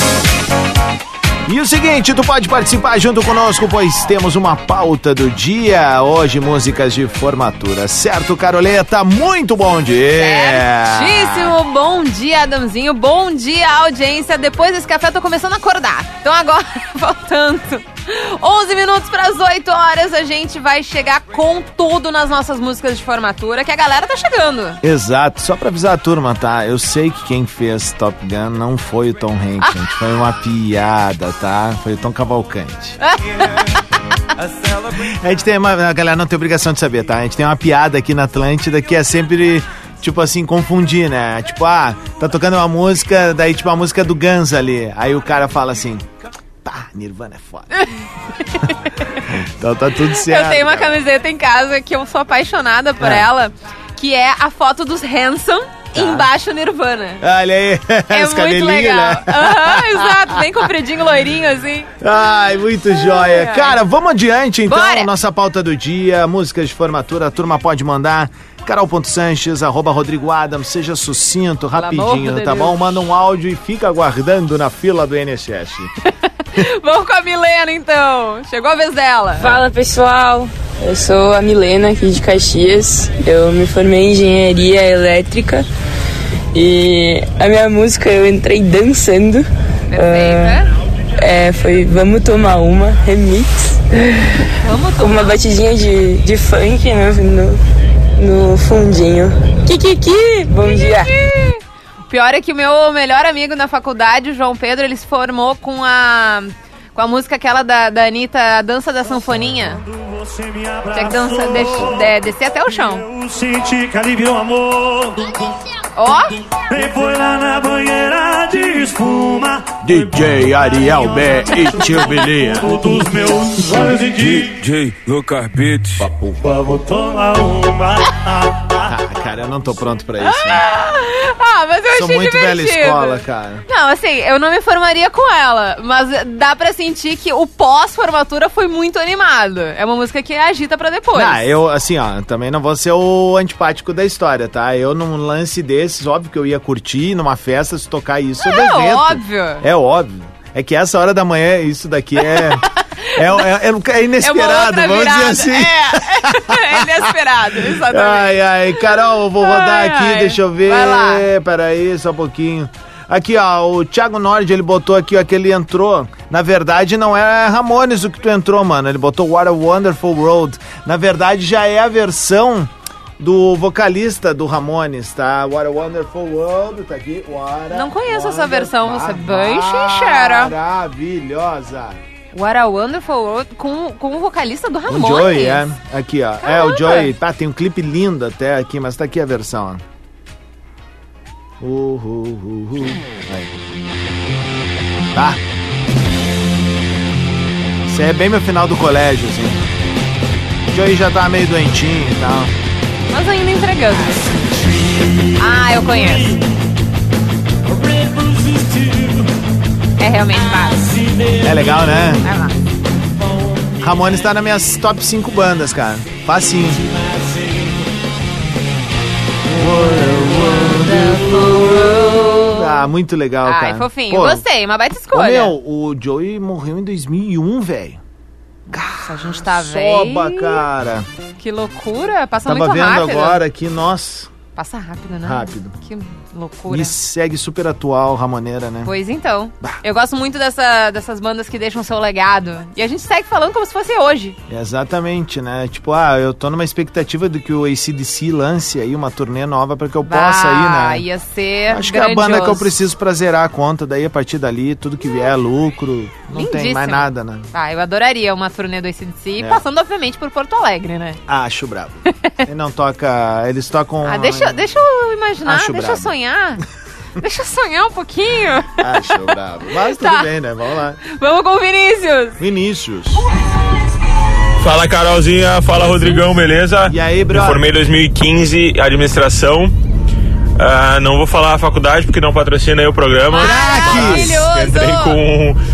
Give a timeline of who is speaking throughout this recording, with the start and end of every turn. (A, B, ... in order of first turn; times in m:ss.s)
0:01.5-0:11.6 A
0:10.2-0:24.8 B
0:24.8-0:33.0 A
0:29.6-0:29.9 B
0:34.9-0:46.1 A
0:46.6-0:47.7 A
0:49.3-0:51.0 A
0:50.1-0:57.2 B
0:53.0-0:53.3 A
0:55.9-0:56.3 A
0:57.2-1:00.7 A
0:58.1-1:01.9 B
1:02.0-1:15.9 A
1:02.9-1:03.8 B
1:04.7-1:05.1 B
1:11.8-1:12.8 B
1:16.6-1:19.6 B
1:19.4-1:25.7 C
1:26.5-1:30.6 C
1:29.9-1:30.7 B
1:31.2-1:34.4 C
1:34.6-1:35.4 B
1:35.0-1:37.6 C
1:38.2-1:41.1 C
1:40.7-1:49.8 B
1:49.8-1:52.2 D
1:50.9-1:53.0 B
1:52.8-1:55.5 D
1:56.0-1:56.4 B
1:56.7-2:00.1 D
1:59.8-2:02.9 A
2:01.0-2:04.7 D
2:06.4-2:08.9 D
2:08.9-2:10.6 A
2:10.2-2:21.4 B
2:11.9-2:13.6 A
2:21.1-2:32.6 A
2:28.4-2:29.6 B
2:32.3-2:33.4 B
2:33.2-2:37.1 A
2:34.2-2:38.8 B
2:37.6-3:02.0 A
2:39.4-2:41.2 B
2:57.7-3:00.5 B
3:02.3-3:05.7 B
3:04.9-3:09.8 A
3:06.4-3:07.1 B
3:11.6-3:13.6 A
3:15.1-3:15.4 A
3:17.9-3:19.6 A
3:20.7-3:22.5 A
3:23.1-3:24.2 B
3:25.4-3:26.4 B
3:28.1-3:29.2 D
3:30.0-3:30.9 B
3:31.4-3:32.3 A
3:32.2-3:32.5 B
3:33.8-3:36.8 A
3:39.5-3:44.4 A
3:40.8-3:42.9 B
3:43.4-3:45.6 B
3:45.1-3:48.0 A
3:48.7-3:50.6 B
3:48.7-3:51.1 A
3:51.4-3:53.4 B
3:52.4-3:54.3 A
3:54.6-3:56.9 B
3:55.2-3:55.8 A
3:56.7-3:58.9 A
3:58.8-4:04.4 B
4:04.5-4:11.0 A
4:10.1-4:12.7 B
4:11.7-4:17.5 A
4:16.3-4:21.2 B
4:21.3-4:24.7 A
4:24.0-4:26.6 B
4:25.4-4:26.2 A
4:27.2-4:29.3 B
4:28.8-4:31.0 A
4:30.0-4:30.3 B
4:31.0-4:32.4 B
4:32.4-4:33.2 A
4:34.6-4:39.7 E
4:36.9-4:37.7 A
4:40.6-4:45.6 E
4:43.3-4:45.2 B
4:43.4-4:44.4 A